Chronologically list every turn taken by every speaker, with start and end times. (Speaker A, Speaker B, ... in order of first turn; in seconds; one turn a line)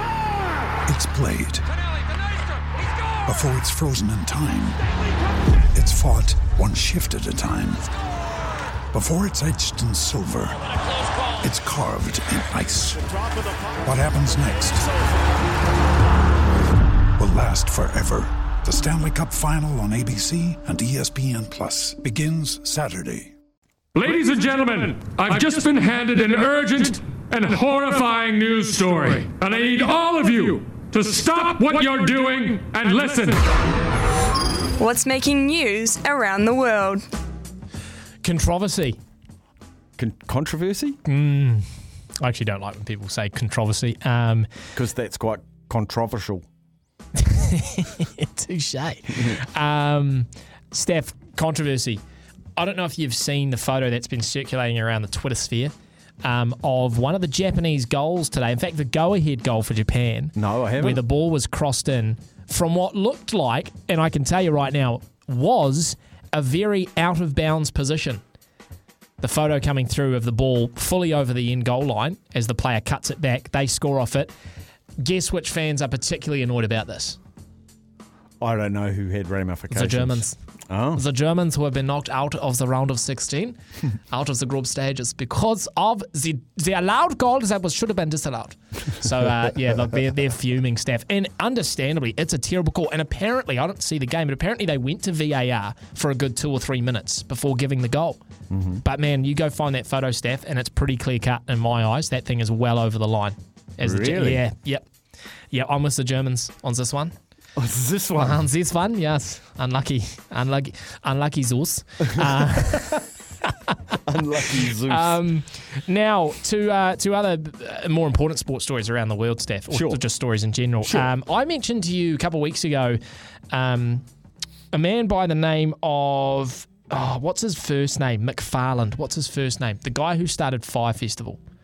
Speaker A: 0.9-1.7
Speaker A: 3.2-4.8
Speaker A: 5.7-7.9
Speaker A: 8.9-10.6
Speaker A: 11.4-13.0
Speaker A: 13.8-14.9
Speaker A: 17.2-23.3
Speaker B: 23.9-33.5
Speaker C: 34.8-37.1
Speaker D: 38.2-39.0
Speaker E: 40.0-41.0
Speaker D: 41.0-41.7
Speaker D: 42.2-44.5
Speaker E: 44.8-46.4
Speaker D: 47.2-52.0
Speaker D: 52.6-68.2
Speaker E: 60.4-61.0
Speaker D: 69.2-74.3
Speaker D: 75.0-77.2
Speaker E: 78.4-81.0
Speaker D: 79.7-80.4
Speaker D: 80.9-98.2
Speaker E: 98.5-98.8
Speaker D: 98.8-104.8
Speaker E: 103.8-104.4
Speaker D: 105.5-107.1
Speaker E: 107.6-108.4
Speaker D: 108.2-114.0
Speaker E: 114.0-115.2
Speaker D: 114.5-123.0
Speaker E: 119.7-120.0
Speaker E: 120.8-121.1
Speaker D: 123.5-124.0
Speaker D: 124.7-131.4